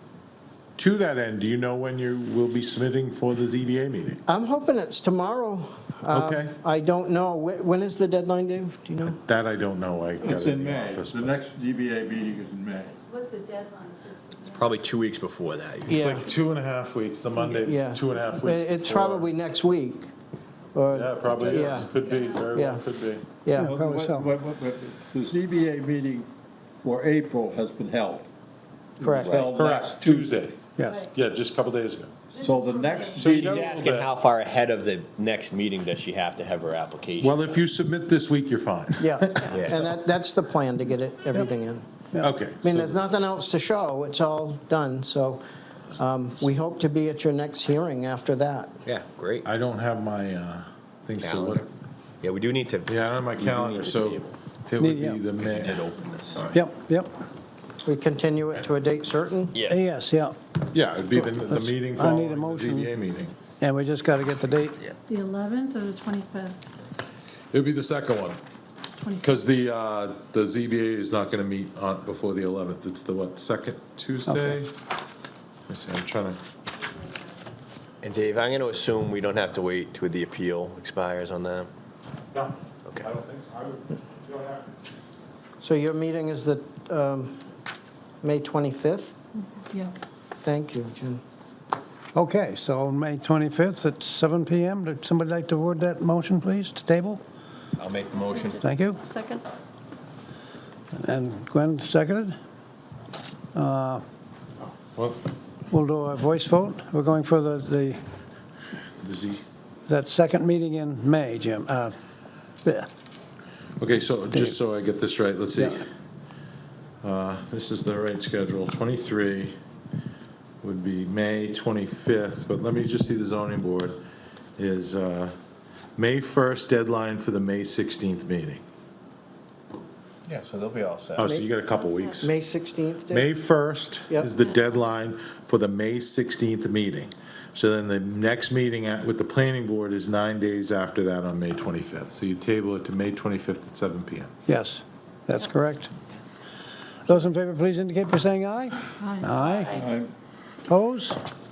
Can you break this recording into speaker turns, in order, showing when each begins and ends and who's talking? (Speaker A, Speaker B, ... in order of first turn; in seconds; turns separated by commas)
Speaker A: 0.8-4.2, Speaker B: 4.3-9.2, Speaker A: 6.1-6.5, Speaker A: 9.0-11.4, Speaker C: 10.2-13.0, Speaker D: 13.0-14.7, Speaker E: 14.5-16.0, Speaker B: 15.9-16.3, Speaker A: 15.9-19.3, Speaker B: 17.4-20.1, Speaker B: 20.7-22.0, Speaker A: 20.9-23.2, Speaker B: 22.5-22.8, Speaker B: 23.4-23.8, Speaker F: 23.5-24.3, Speaker C: 23.6-26.3, Speaker C: 26.8-28.2, Speaker B: 29.0-29.4, Speaker C: 29.0-30.3, Speaker E: 29.2-29.5, Speaker A: 29.5-32.1, Speaker C: 32.3-33.6, Speaker D: 32.7-33.1, Speaker A: 33.1-34.1, Speaker E: 33.1-37.6, Speaker A: 37.2-39.7, Speaker B: 39.0-41.9, Speaker E: 39.5-39.9, Speaker A: 42.2-43.0, Speaker B: 42.6-45.4, Speaker B: 45.9-48.8, Speaker E: 48.8-49.5, Speaker A: 49.4-51.6, Speaker E: 51.2-51.7, Speaker E: 52.2-54.3, Speaker A: 52.9-55.9, Speaker F: 54.8-55.2, Speaker E: 55.4-56.6, Speaker F: 56.5-57.1, Speaker B: 57.8-59.5, Speaker E: 59.5-59.8, Speaker F: 59.7-60.4, Speaker A: 60.7-63.3, Speaker F: 61.3-62.9, Speaker F: 63.6-64.8, Speaker D: 65.1-66.6, Speaker A: 67.5-68.4, Speaker A: 69.2-74.7, Speaker F: 74.3-74.6, Speaker A: 75.7-76.4, Speaker E: 78.0-81.7, Speaker A: 82.3-84.7, Speaker B: 85.6-87.4, Speaker B: 88.2-89.1, Speaker D: 89.4-89.9, Speaker B: 90.4-91.2, Speaker F: 92.1-97.2, Speaker E: 97.8-98.6, Speaker F: 98.6-99.0, Speaker D: 99.1-99.4, Speaker F: 101.0-102.3, Speaker F: 103.5-104.0, Speaker A: 104.9-105.2, Speaker F: 105.7-108.0, Speaker A: 109.0-109.4, Speaker F: 109.9-111.9, Speaker A: 113.8-115.9, Speaker A: 117.0-119.5, Speaker A: 120.6-124.0, Speaker A: 124.6-125.3, Speaker A: 126.0-128.6, Speaker E: 130.3-131.3, Speaker A: 131.2-132.3, Speaker B: 132.2-133.3, Speaker A: 133.1-144.3, Speaker F: 144.5-145.9, Speaker F: 147.1-149.8, Speaker D: 149.0-149.3, Speaker C: 149.7-150.1, Speaker F: 150.7-151.2